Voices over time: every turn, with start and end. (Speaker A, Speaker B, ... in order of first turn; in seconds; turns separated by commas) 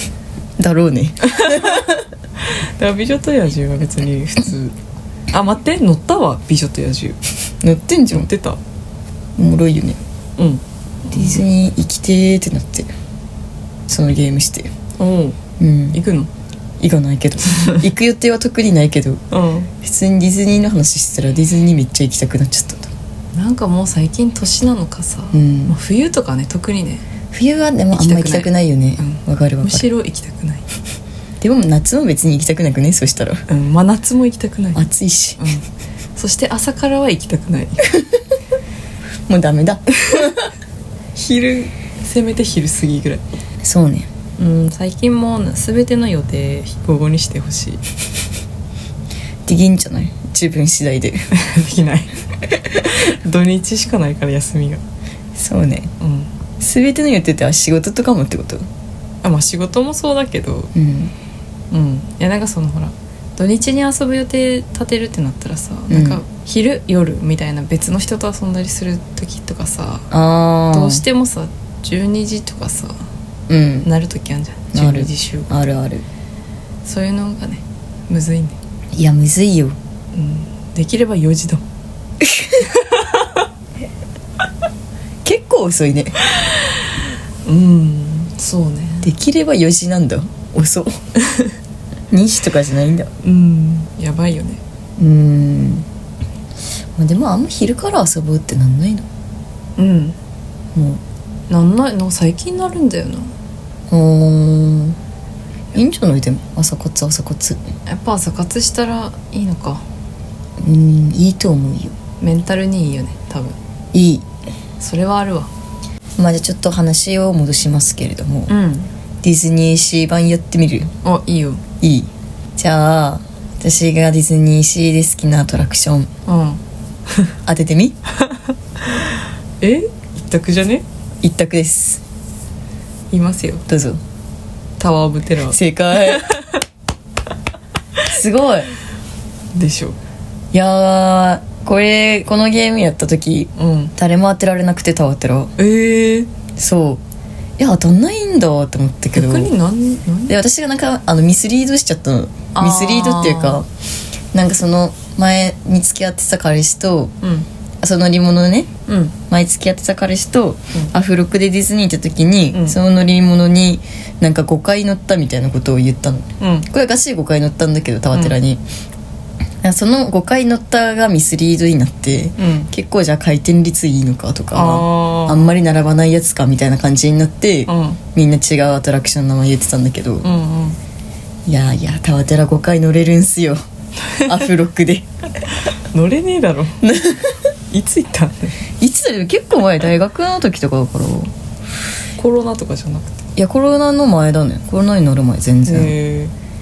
Speaker A: 0.6-2.0, Speaker B: 1.2-4.8, Speaker B: 5.3-7.2, Speaker A: 7.6-8.3, Speaker B: 8.1-8.6, Speaker A: 9.4-10.0, Speaker B: 10.4-11.4, Speaker A: 11.1-12.9, Speaker A: 13.9-14.7, Speaker B: 15.0-15.4, Speaker A: 15.6-16.0, Speaker B: 15.9-16.3, Speaker A: 16.8-19.2, Speaker B: 17.5-17.8, Speaker B: 19.3-19.7, Speaker A: 19.8-22.9, Speaker B: 23.3-27.0, Speaker A: 25.3-25.8, Speaker A: 27.3-29.9, Speaker B: 27.9-30.7, Speaker A: 31.4-33.4, Speaker B: 33.5-34.9, Speaker A: 34.8-35.4, Speaker B: 35.4-35.6, Speaker B: 36.2-37.9, Speaker A: 37.9-38.2, Speaker A: 39.3-40.4, Speaker B: 40.0-40.4, Speaker B: 41.2-43.2, Speaker A: 43.6-44.1, Speaker B: 44.4-47.8, Speaker A: 49.5-51.2, Speaker B: 51.3-52.1, Speaker B: 52.7-54.8, Speaker A: 55.4-55.9, Speaker B: 56.0-56.3, Speaker A: 56.6-58.7, Speaker B: 59.2-60.7, Speaker A: 60.7-61.1, Speaker B: 61.7-70.1, Speaker A: 65.9-66.2, Speaker A: 70.1-71.0, Speaker B: 70.7-73.0, Speaker A: 73.5-73.9, Speaker B: 73.8-75.5, Speaker A: 74.7-76.0, Speaker B: 76.8-78.6, Speaker A: 78.9-79.8, Speaker B: 80.1-81.6, Speaker A: 82.2-82.7, Speaker B: 82.7-83.2, Speaker A: 85.2-86.2, Speaker B: 87.5-89.1, Speaker A: 89.0-90.9, Speaker A: 92.1-93.1, Speaker B: 93.2-94.6, Speaker A: 95.0-95.9, Speaker A: 97.0-99.1, Speaker B: 99.8-100.2, Speaker A: 100.8-101.0, Speaker B: 101.5-103.3, Speaker A: 103.9-105.0, Speaker A: 105.7-107.6, Speaker B: 107.9-109.8, Speaker A: 110.6-111.9, Speaker B: 112.2-113.6, Speaker A: 113.9-114.2, Speaker B: 114.8-115.5, Speaker A: 116.2-118.5, Speaker B: 118.5-118.9, Speaker A: 119.2-120.9, Speaker B: 121.0-121.6, Speaker A: 121.8-126.1, Speaker B: 126.2-127.3, Speaker A: 127.5-128.0, Speaker B: 129.6-130.8, Speaker A: 131.2-132.0, Speaker B: 133.1-133.7, Speaker A: 133.7-134.0, Speaker B: 134.8-136.6, Speaker A: 135.5-136.3, Speaker A: 138.0-138.7, Speaker B: 139.5-140.0, Speaker A: 140.5-145.5, Speaker B: 143.6-143.9, Speaker B: 145.6-146.3, Speaker A: 146.6-147.0, Speaker A: 147.6-149.5, Speaker B: 149.1-150.4, Speaker A: 150.3-153.7, Speaker B: 152.5-153.6, Speaker A: 154.3-157.1, Speaker B: 157.2-157.5, Speaker A: 157.8-158.7, Speaker B: 158.9-159.2, Speaker A: 159.3-168.6, Speaker B: 162.5-162.8, Speaker B: 166.4-166.7, Speaker A: 169.6-180.2, Speaker B: 172.4-172.7, Speaker B: 174.5-175.5, Speaker B: 177.7-178.0, Speaker B: 180.2-180.8, Speaker A: 181.5-183.6, Speaker B: 184.0-184.4, Speaker A: 184.2-185.1, Speaker B: 185.5-186.8, Speaker A: 186.8-187.4, Speaker B: 187.7-188.6, Speaker A: 188.8-191.3, Speaker B: 192.2-193.2, Speaker A: 193.4-196.0, Speaker B: 195.7-196.3